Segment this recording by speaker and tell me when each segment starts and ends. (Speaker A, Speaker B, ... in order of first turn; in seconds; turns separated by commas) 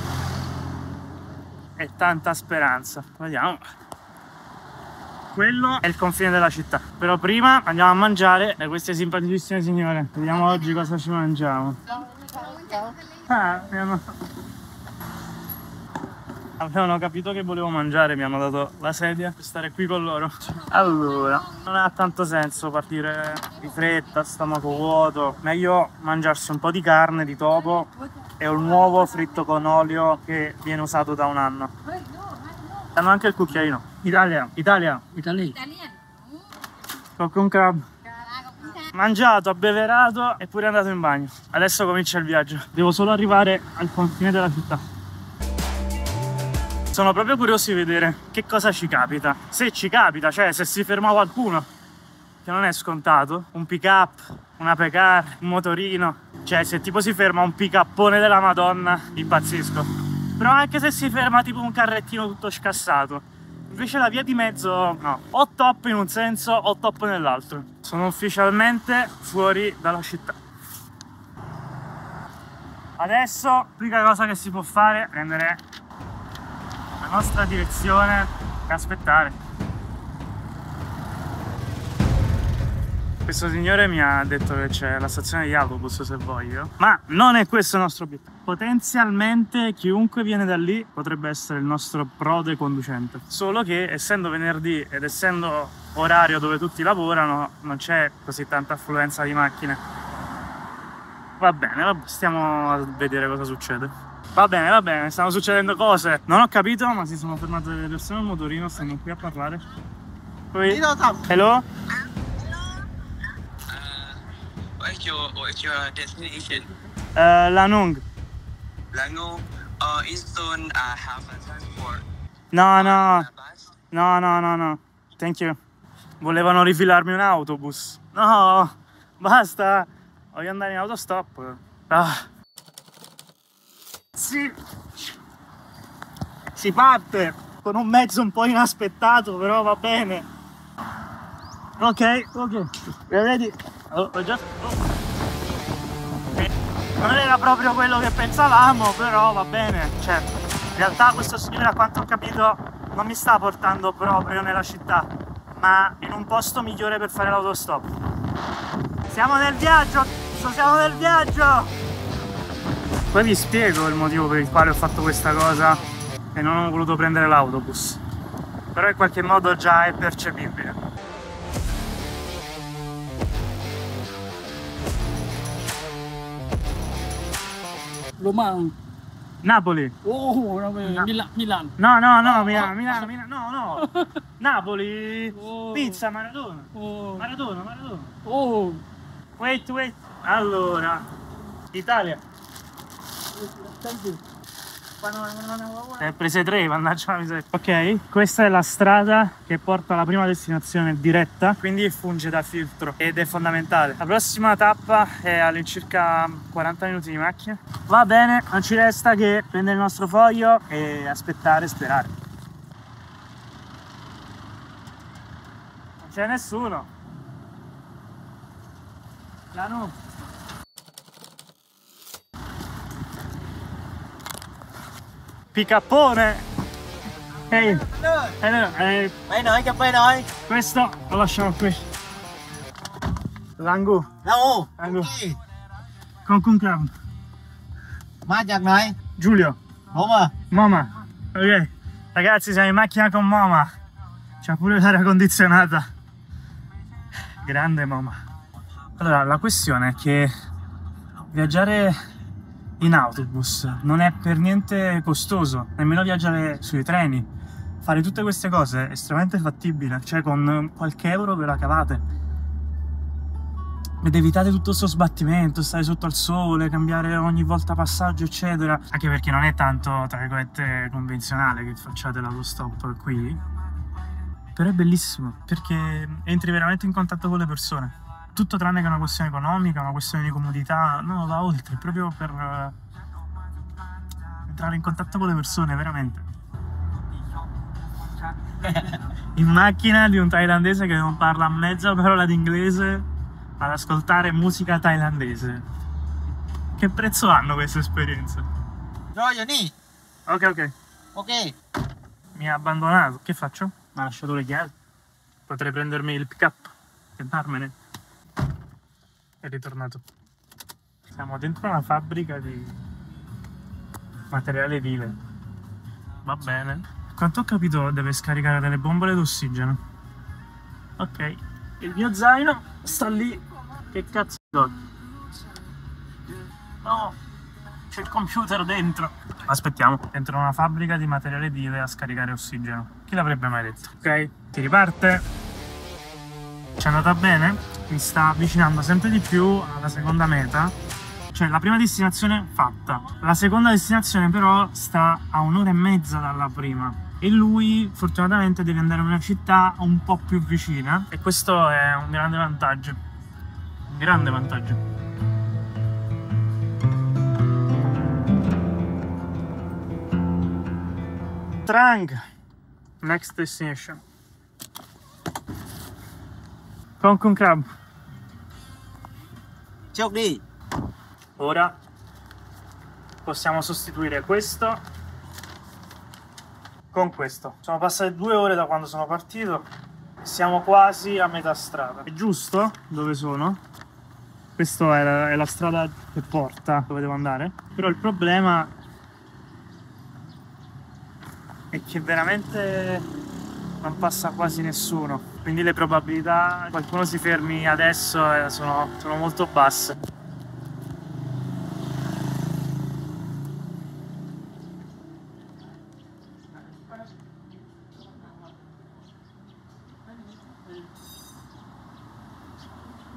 Speaker A: 1.8-3.6, Speaker A: 5.3-14.1, Speaker A: 16.6-31.7, Speaker A: 32.8-35.1, Speaker B: 35.1-35.6, Speaker A: 37.2-37.9, Speaker A: 38.4-44.8, Speaker A: 46.9-51.7, Speaker A: 52.4-70.4, Speaker A: 73.0-75.6, Speaker A: 77.0-79.4, Speaker A: 83.2-99.8, Speaker A: 101.4-109.6, Speaker A: 110.5-111.6, Speaker C: 110.7-111.2, Speaker D: 112.5-112.8, Speaker D: 113.7-114.2, Speaker D: 114.8-116.7, Speaker A: 117.1-118.0, Speaker D: 118.9-122.0, Speaker A: 122.5-123.3, Speaker D: 122.9-123.5, Speaker A: 123.9-125.6, Speaker A: 126.2-132.2, Speaker A: 134.1-134.5, Speaker A: 136.5-140.3, Speaker A: 141.8-144.8, Speaker A: 147.0-157.9, Speaker A: 159.1-161.7, Speaker A: 163.1-165.8, Speaker A: 166.3-168.0, Speaker A: 168.7-170.8, Speaker B: 178.2-178.8, Speaker A: 179.4-179.9, Speaker B: 180.0-181.7, Speaker A: 180.8-181.1, Speaker A: 181.8-188.1, Speaker B: 185.4-185.8, Speaker B: 186.7-187.3, Speaker B: 188.2-188.8, Speaker A: 189.4-191.1, Speaker A: 191.7-192.2, Speaker A: 193.6-194.2, Speaker A: 195.0-212.1, Speaker A: 216.0-216.9, Speaker A: 219.5-219.9, Speaker A: 225.5-226.4, Speaker A: 227.5-229.1, Speaker C: 227.9-228.3, Speaker C: 229.3-230.3, Speaker A: 230.4-231.8, Speaker A: 233.6-234.1, Speaker C: 234.2-235.4, Speaker A: 234.8-235.2, Speaker A: 236.2-236.9, Speaker C: 238.2-239.0, Speaker A: 239.2-239.6, Speaker C: 239.9-240.3, Speaker A: 240.5-243.7, Speaker A: 244.4-245.9, Speaker A: 247.4-248.2, Speaker A: 249.0-250.3, Speaker A: 251.3-252.0, Speaker A: 252.8-257.3, Speaker A: 257.8-262.0, Speaker A: 264.0-273.4, Speaker A: 274.5-282.8, Speaker A: 284.4-286.2, Speaker A: 288.6-293.1, Speaker A: 293.6-295.6, Speaker A: 296.8-298.4, Speaker C: 299.1-299.7, Speaker A: 300.3-300.7, Speaker C: 301.1-301.5, Speaker A: 302.3-304.7, Speaker A: 305.5-307.7, Speaker A: 309.4-310.0, Speaker A: 311.1-312.8, Speaker A: 314.3-315.2, Speaker A: 316.2-319.8, Speaker A: 321.0-324.7, Speaker A: 326.8-327.2, Speaker A: 327.9-335.2, Speaker A: 336.8-340.7, Speaker A: 341.3-353.0, Speaker A: 353.9-354.8, Speaker A: 361.6-362.2, Speaker A: 363.0-364.0, Speaker A: 367.0-367.7, Speaker C: 369.9-370.4, Speaker A: 371.4-371.8, Speaker A: 373.2-374.8, Speaker A: 376.9-379.7, Speaker A: 380.2-383.6, Speaker A: 384.6-388.7, Speaker A: 391.7-393.1, Speaker A: 393.8-400.0